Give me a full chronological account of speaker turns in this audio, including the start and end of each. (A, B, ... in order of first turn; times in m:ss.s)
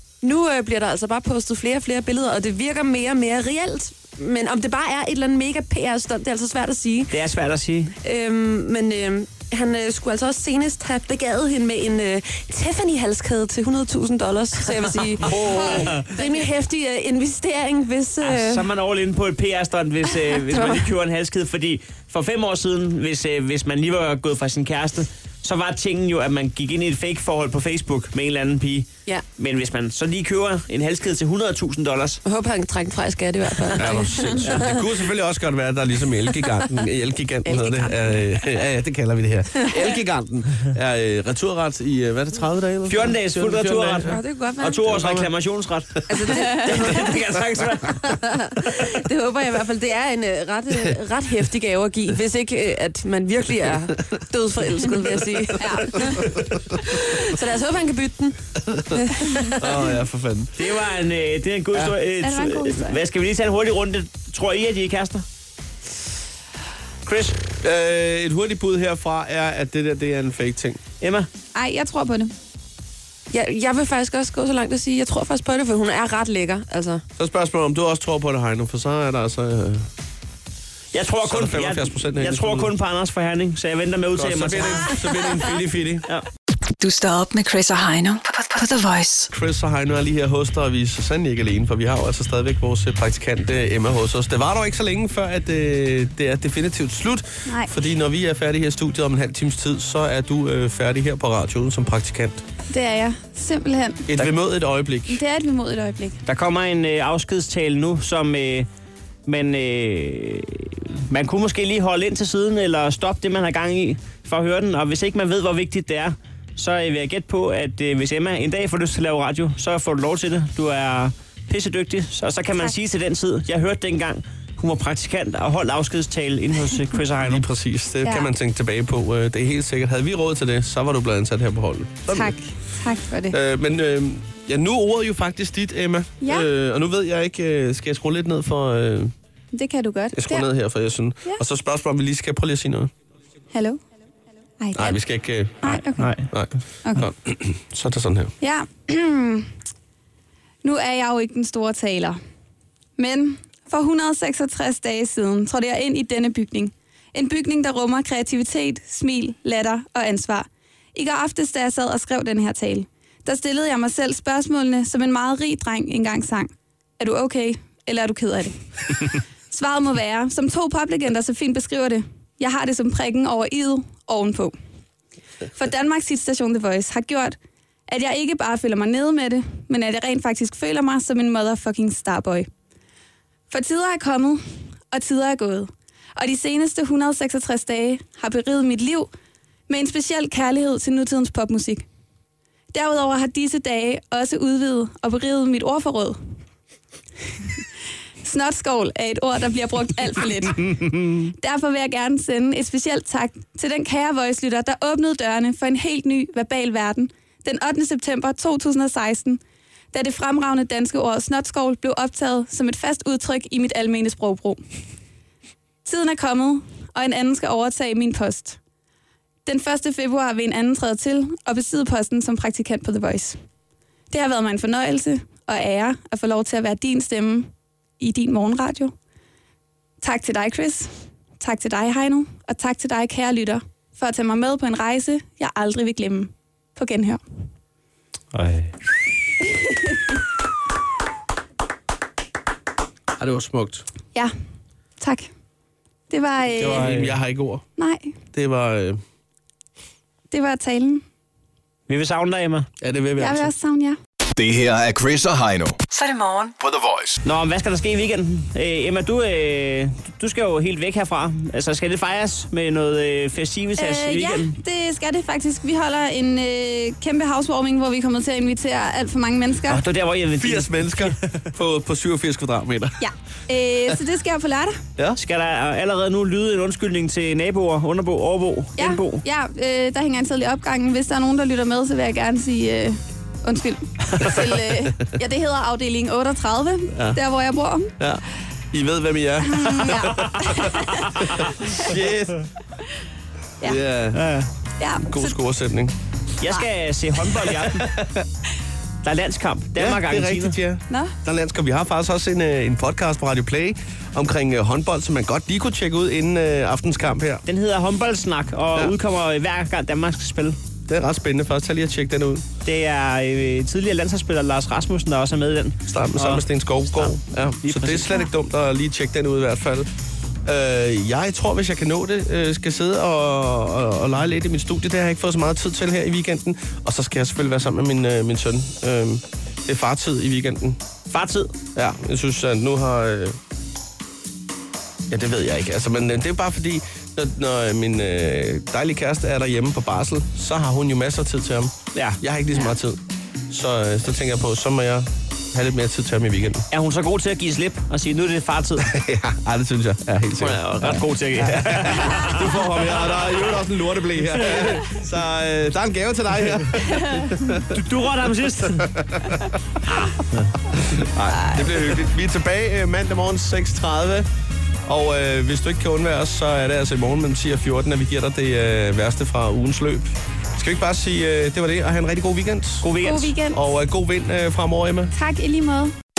0:00.2-0:07.1 A
0:07.1-0:07.9 B
0:08.0-0:18.6 A
0:15.3-0:16.5 C
0:15.4-0:16.0 B
0:18.2-0:32.2 B
0:20.5-0:20.8 A
0:32.2-0:34.9 A
0:33.8-0:44.2 D
0:34.4-0:34.7 B
0:37.4-0:38.2 A
0:39.6-0:39.9 A
0:42.9-0:48.1 B
0:44.0-0:44.8 A
0:44.8-0:45.3 D
0:46.1-0:47.1 A
0:48.0-0:56.2 A
0:55.6-0:55.9 C
0:57.0-0:58.4 A
0:58.9-0:59.9 A
0:59.6-1:00.5 D
1:00.6-1:05.2 B
1:02.2-1:03.0 C
1:07.0-1:07.4 B
1:07.6-1:10.8 D
1:11.0-1:11.3 B
1:11.5-1:12.3 C
1:13.3-1:17.0 A
1:17.2-1:19.9 D
1:20.9-1:24.9 B
1:21.2-1:22.7 D
1:24.2-1:26.1 D
1:26.8-1:29.3 E
1:29.3-1:42.4 D
1:37.5-1:37.7 C
1:42.7-1:44.1 C
1:44.1-1:45.2 D
1:45.1-1:46.2 C
1:46.3-1:48.7 B
1:49.3-2:07.4 B
2:07.2-2:12.3 D
2:12.1-2:13.4 C
2:13.3-2:19.1 D
2:16.2-2:16.5 C
2:19.5-2:20.5 C
2:20.1-2:22.9 D
2:23.5-2:23.8 C
2:24.6-2:25.0 C
2:24.8-2:25.8 D
2:25.6-2:26.3 C
2:26.0-2:26.3 B
2:26.3-2:28.4 D
2:28.4-2:29.5 C
2:30.6-2:32.2 C
2:33.0-2:49.0 C
2:49.5-2:54.6 C
2:55.6-2:57.4 C
2:57.9-3:02.5 C
3:03.5-3:09.1 C
3:09.7-3:11.8 C
3:12.7-3:16.2 C
3:18.2-3:29.4 C
3:29.9-3:34.6 C
3:35.8-3:38.6 C
3:39.5-3:43.4 C
3:44.1-3:48.9 C
3:50.0-3:57.2 C
3:58.3-3:58.7 B
4:03.2-4:03.8 D
4:05.0-4:05.3 C
4:06.1-4:06.9 C
4:06.6-4:07.6 D
4:06.7-4:07.2 B
4:07.8-4:08.1 C
4:08.3-4:09.0 D
4:10.3-4:11.0 C
4:11.9-4:12.7 B
4:12.8-4:13.5 D
4:13.2-4:14.0 C
4:14.4-4:15.8 F
4:15.9-4:16.6 E
4:16.6-4:17.2 F
4:17.2-4:24.6 B
4:23.8-4:29.8 C
4:29.7-4:31.4 B
4:30.4-4:33.0 D
4:33.0-4:34.8 C
4:35.2-4:39.2 B
4:38.8-4:47.9 C
4:48.0-4:52.5 D
4:49.4-4:51.3 C
4:53.6-4:54.3 D
4:54.1-4:54.5 B
4:54.8-4:55.4 C
4:55.0-4:56.0 D
4:56.4-4:57.9 B
4:57.5-4:58.3 D
4:59.0-5:00.6 B
4:59.8-5:07.4 D
5:07.5-5:10.6 B
5:10.9-5:12.4 D
5:12.6-5:18.3 B
5:15.9-5:19.9 D
5:20.4-5:30.8 D
5:31.1-5:31.5 B
5:31.8-5:33.4 D
5:35.1-5:46.6 D
5:41.9-5:42.2 B
5:46.7-5:48.9 B
5:48.9-5:57.7 D
5:50.4-5:53.6 B
5:54.3-5:54.8 B
5:57.6-5:58.9 B
5:58.8-5:59.5 D
6:00.0-6:00.5 B
6:00.8-6:04.3 D
6:04.9-6:12.9 D
6:12.8-6:13.4 B
6:13.0-6:13.6 C
6:13.5-6:15.1 D
6:15.1-6:15.9 C